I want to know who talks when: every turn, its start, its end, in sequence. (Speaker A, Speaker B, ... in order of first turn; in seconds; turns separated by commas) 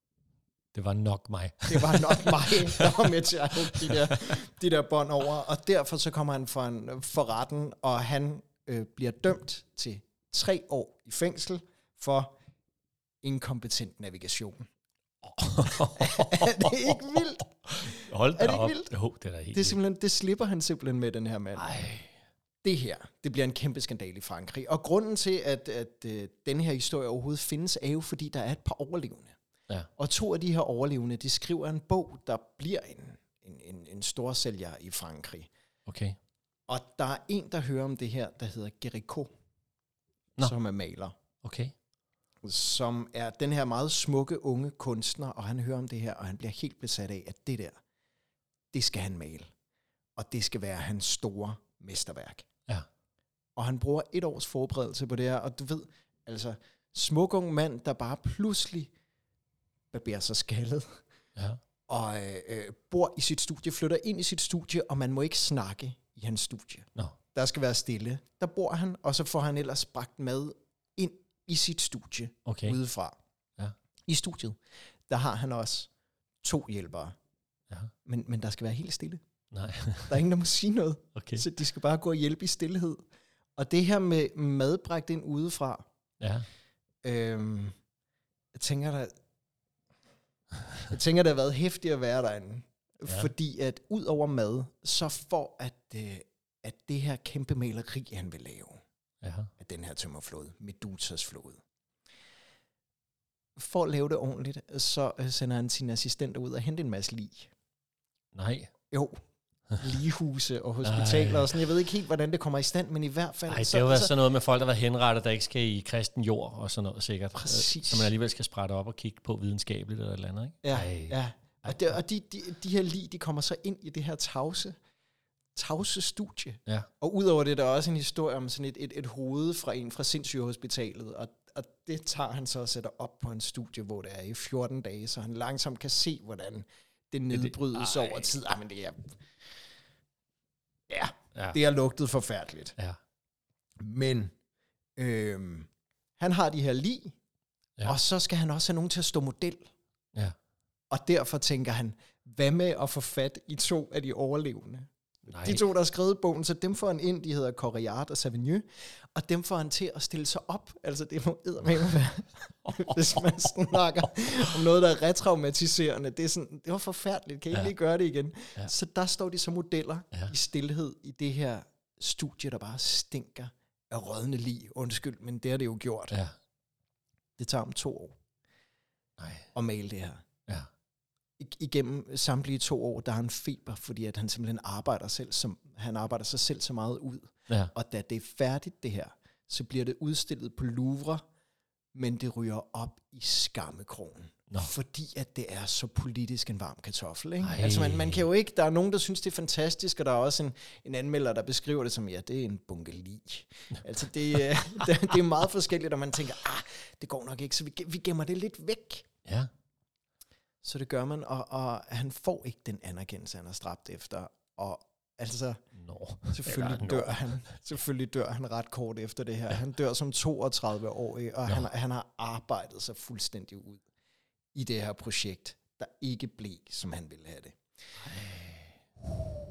Speaker A: 0.7-4.2, Speaker B: 1.7-12.3, Speaker B: 13.2-14.7, Speaker A: 15.2-19.8, Speaker B: 15.7-18.9, Speaker B: 19.5-21.7, Speaker A: 21.6-22.1, Speaker B: 22.6-29.4, Speaker B: 30.0-35.5, Speaker A: 35.9-36.2, Speaker B: 36.7-39.3, Speaker B: 40.4-41.1, Speaker A: 41.4-41.7, Speaker B: 42.4-47.8, Speaker B: 48.7-49.5, Speaker B: 50.1-52.5, Speaker B: 53.5-58.9, Speaker B: 59.9-61.0, Speaker B: 61.9-73.2, Speaker A: 72.5-72.8, Speaker B: 74.0-75.9, Speaker B: 76.4-77.2, Speaker B: 78.0-79.2, Speaker A: 79.5-80.1, Speaker B: 80.1-83.0, Speaker A: 81.2-81.4, Speaker B: 83.6-85.8, Speaker A: 86.2-86.5, Speaker B: 87.0-87.7, Speaker B: 88.5-89.1, Speaker B: 90.9-98.8, Speaker A: 99.2-99.5, Speaker B: 99.6-101.6, Speaker B: 103.5-107.5, Speaker A: 108.3-108.7, Speaker B: 108.9-109.2, Speaker B: 109.8-114.1, Speaker A: 110.8-111.5, Speaker A: 113.5-121.2, Speaker B: 117.4-118.1, Speaker B: 120.6-124.8, Speaker B: 125.5-139.2, Speaker A: 137.3-138.3, Speaker B: 140.9-142.7, Speaker B: 143.8-144.3, Speaker B: 144.9-147.2, Speaker B: 147.8-149.7, Speaker B: 150.9-176.2, Speaker A: 155.3-155.6, Speaker A: 162.6-163.2, Speaker B: 177.4-178.2, Speaker A: 179.2-179.5, Speaker B: 179.5-180.2, Speaker B: 181.4-191.2, Speaker B: 191.9-209.1, Speaker A: 197.4-198.2, Speaker B: 210.6-215.6, Speaker A: 215.8-217.3, Speaker B: 216.3-223.8, Speaker B: 224.5-227.6, Speaker A: 228.0-228.7